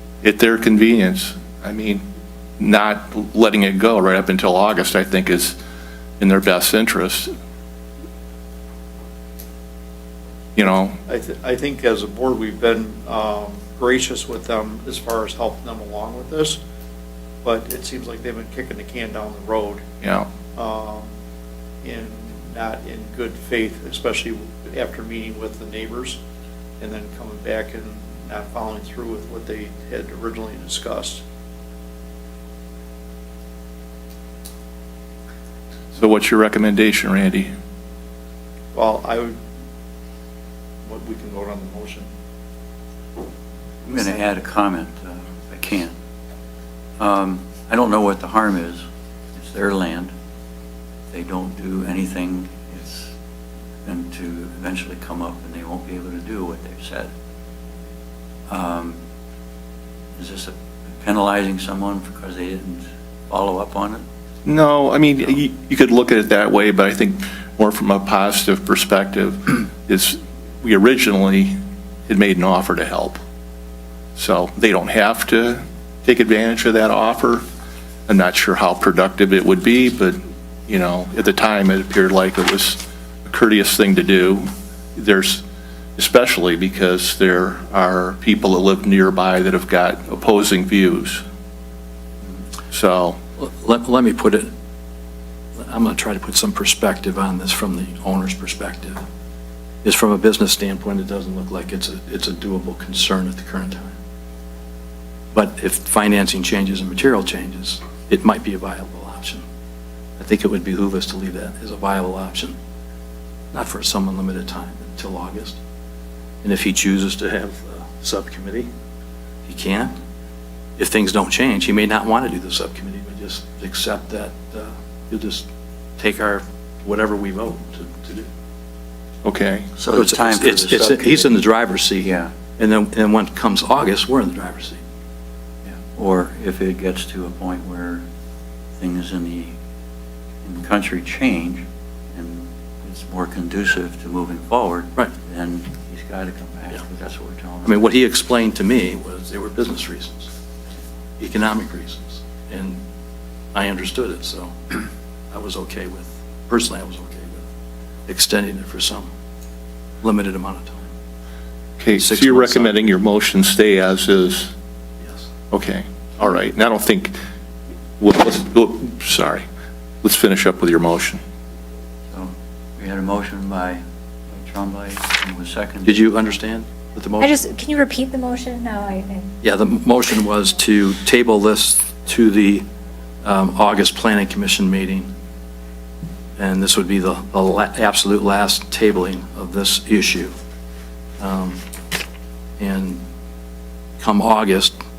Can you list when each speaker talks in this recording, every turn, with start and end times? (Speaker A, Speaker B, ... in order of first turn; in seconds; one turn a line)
Speaker A: 0.2-2.0
Speaker A: 2.6-5.6
Speaker A: 6.2-7.3
Speaker A: 10.6-11.0
Speaker B: 11.1-16.6
Speaker B: 17.4-19.9
Speaker A: 20.0-20.3
Speaker B: 20.4-21.1
Speaker B: 21.8-26.2
Speaker B: 26.8-31.2
Speaker A: 36.0-37.5
Speaker B: 38.7-39.4
Speaker B: 40.9-42.1
Speaker C: 43.8-45.9
Speaker C: 47.0-50.1
Speaker C: 51.1-53.1
Speaker C: 53.9-57.1
Speaker C: 58.5-59.0
Speaker C: 60.2-64.0
Speaker A: 64.5-73.2
Speaker A: 74.2-77.4
Speaker A: 78.1-85.4
Speaker A: 86.0-91.2
Speaker A: 92.7-93.2
Speaker D: 93.4-94.5
Speaker D: 95.6-99.0
Speaker D: 99.8-104.0
Speaker D: 105.3-109.4
Speaker D: 110.2-112.5
Speaker D: 113.5-115.6
Speaker D: 116.4-118.7
Speaker D: 119.5-119.9
Speaker D: 120.8-125.5
Speaker D: 126.0-128.3
Speaker A: 129.2-129.7
Speaker C: 129.8-131.4
Speaker D: 129.9-134.8
Speaker C: 132.0-132.3
Speaker C: 135.7-138.1
Speaker C: 138.8-139.6
Speaker C: 140.4-147.9
Speaker D: 147.6-150.3
Speaker D: 151.2-152.8
Speaker D: 153.5-157.4
Speaker D: 158.1-159.1
Speaker D: 160.0-160.9
Speaker A: 161.8-164.5
Speaker D: 161.9-163.0
Speaker D: 165.0-165.3
Speaker A: 165.5-167.2
Speaker A: 168.0-169.4
Speaker A: 170.0-171.2
Speaker C: 172.1-176.2
Speaker D: 175.8-177.4
Speaker E: 177.2-179.3
Speaker D: 179.4-182.7
Speaker D: 183.2-185.1
Speaker D: 186.4-190.3
Speaker D: 191.2-191.6
Speaker D: 192.6-193.0
Speaker D: 194.0-194.8